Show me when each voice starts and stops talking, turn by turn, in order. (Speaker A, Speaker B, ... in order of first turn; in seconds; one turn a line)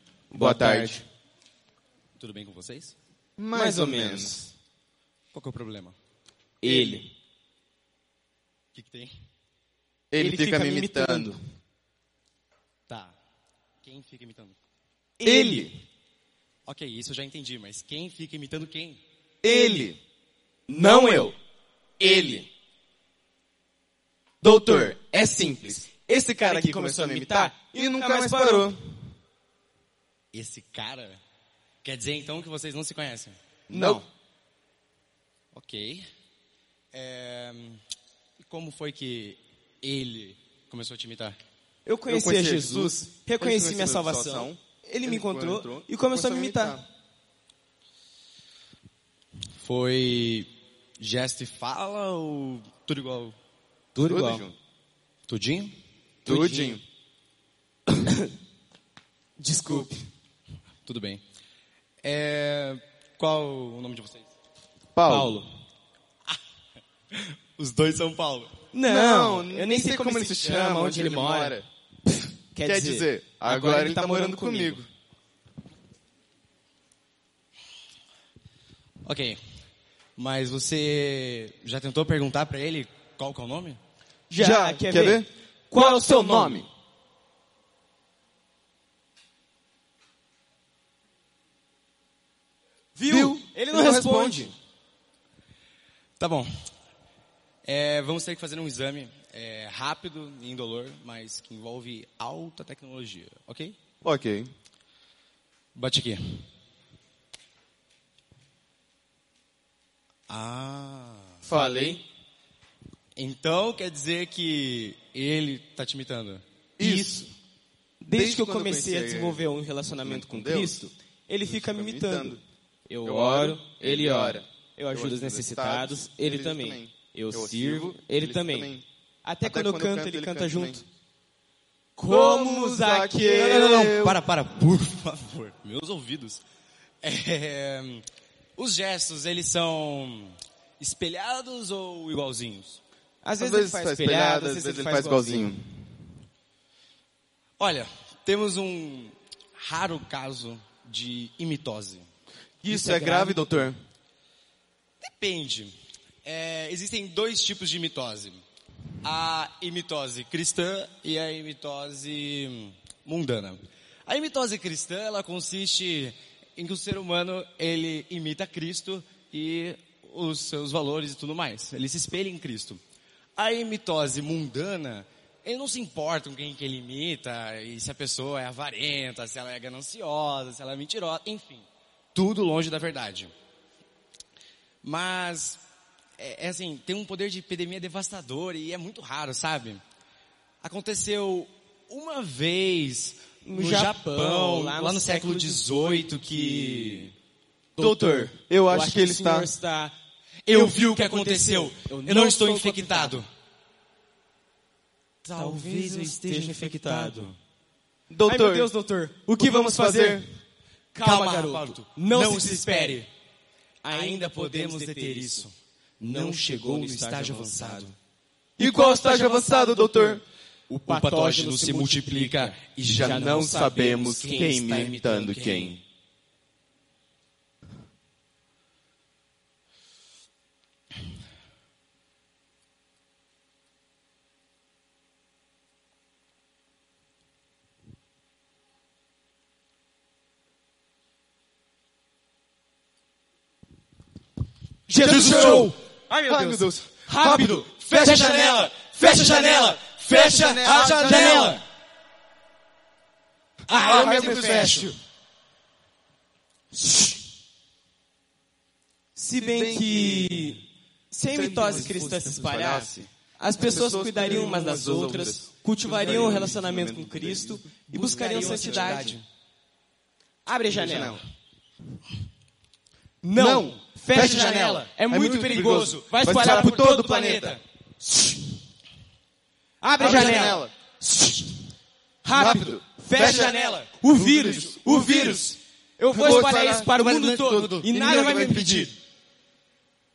Speaker A: 0.3-1.1
Speaker B: 0.3-1.0
Speaker C: 2.2-3.0
Speaker A: 3.4-4.4
Speaker B: 3.5-4.5
Speaker C: 5.3-6.0
Speaker B: 6.6-7.1
Speaker A: 6.6-7.0
Speaker C: 8.7-9.1
Speaker A: 10.1-11.4
Speaker B: 10.2-11.4
Speaker C: 12.9-13.1
Speaker C: 13.8-14.6
Speaker B: 15.2-15.7
Speaker A: 15.2-15.8
Speaker C: 16.7-19.0
Speaker A: 19.4-20.0
Speaker B: 19.5-19.9
Speaker B: 20.7-21.3
Speaker A: 20.7-21.4
Speaker A: 22.0-22.5
Speaker A: 24.4-29.0
Speaker B: 24.7-28.8
Speaker C: 30.3-31.2
Speaker C: 31.8-33.4
Speaker A: 33.7-34.0
Speaker B: 33.7-34.0
Speaker C: 35.5-36.1
Speaker C: 36.9-37.8
Speaker C: 38.4-41.4
Speaker B: 41.9-46.8
Speaker A: 42.1-46.9
Speaker C: 49.6-53.4
Speaker B: 54.0-54.5
Speaker A: 54.1-54.6
Speaker C: 55.3-55.8
Speaker B: 56.2-56.8
Speaker A: 56.3-56.8
Speaker B: 59.4-60.1
Speaker C: 60.9-61.2
Speaker C: 62.0-64.3
Speaker A: 64.9-65.4
Speaker B: 65.1-65.5
Speaker C: 67.1-68.5
Speaker B: 68.7-71.6
Speaker A: 68.9-71.7
Speaker B: 72.5-74.8
Speaker A: 72.6-74.9
Speaker C: 79.0-83.8
Speaker B: 84.3-86.7
Speaker A: 84.3-86.7
Speaker B: 93.0-94.5
Speaker A: 93.0-94.5
Speaker C: 96.2-96.5
Speaker C: 97.7-103.8
Speaker A: 104.0-104.5
Speaker C: 105.8-106.5
Speaker C: 110.3-111.4
Speaker A: 111.4-112.0
Speaker C: 113.2-116.4
Speaker A: 116.8-117.3
Speaker B: 116.8-117.3
Speaker B: 118.0-130.8
Speaker A: 118.1-119.4
Speaker A: 120.0-120.9
Speaker A: 121.5-122.4
Speaker A: 123.0-128.8
Speaker A: 129.4-130.8
Speaker B: 132.0-133.9
Speaker A: 132.1-134.2
Speaker C: 133.3-136.4
Speaker C: 137.0-138.1
Speaker C: 138.6-142.8
Speaker B: 143.2-145.6
Speaker A: 143.4-145.8
Speaker C: 147.6-152.1
Speaker A: 152.6-153.8
Speaker B: 152.6-153.7
Speaker C: 155.0-158.4
Speaker C: 159.0-172.8
Speaker C: 173.4-183.3
Speaker C: 184.8-185.6
Speaker C: 186.2-189.8
Speaker C: 190.6-197.1
Speaker B: 193.4-195.7
Speaker B: 197.8-199.9
Speaker A: 197.8-199.5
Speaker C: 200.5-203.3
Speaker B: 200.6-203.2
Speaker C: 205.2-207.3
Speaker B: 205.3-207.3
Speaker A: 208.1-208.7
Speaker B: 208.3-210.4
Speaker A: 209.4-210.2
Speaker B: 210.9-213.1
Speaker C: 211.0-213.1
Speaker B: 213.8-215.5
Speaker C: 213.9-218.0
Speaker B: 216.0-217.9
Speaker B: 218.6-220.2
Speaker A: 218.6-220.2
Speaker C: 220.7-223.3
Speaker B: 220.9-225.7
Speaker A: 222.8-225.8
Speaker C: 224.3-225.7
Speaker B: 244.9-245.8
Speaker A: 244.9-248.7
Speaker C: 245.1-246.6
Speaker B: 247.1-251.6
Speaker C: 247.2-251.6
Speaker A: 250.1-251.6
Speaker C: 253.7-255.0
Speaker B: 253.7-254.9
Speaker A: 253.8-255.0
Speaker B: 256.7-257.2
Speaker B: 259.2-269.2
Speaker A: 259.4-260.6
Speaker A: 261.3-269.2
Speaker C: 266.0-266.3
Speaker C: 267.9-269.2
Speaker B: 270.5-271.2
Speaker A: 270.7-271.2
Speaker B: 273.2-278.4
Speaker A: 273.4-277.6
Speaker C: 273.7-276.7
Speaker B: 279.8-281.5
Speaker A: 280.0-280.7
Speaker C: 280.0-280.6
Speaker B: 282.2-288.9
Speaker A: 282.3-283.6
Speaker C: 283.1-283.9
Speaker A: 284.1-285.5
Speaker A: 286.1-286.9
Speaker C: 286.1-288.8
Speaker A: 287.6-288.9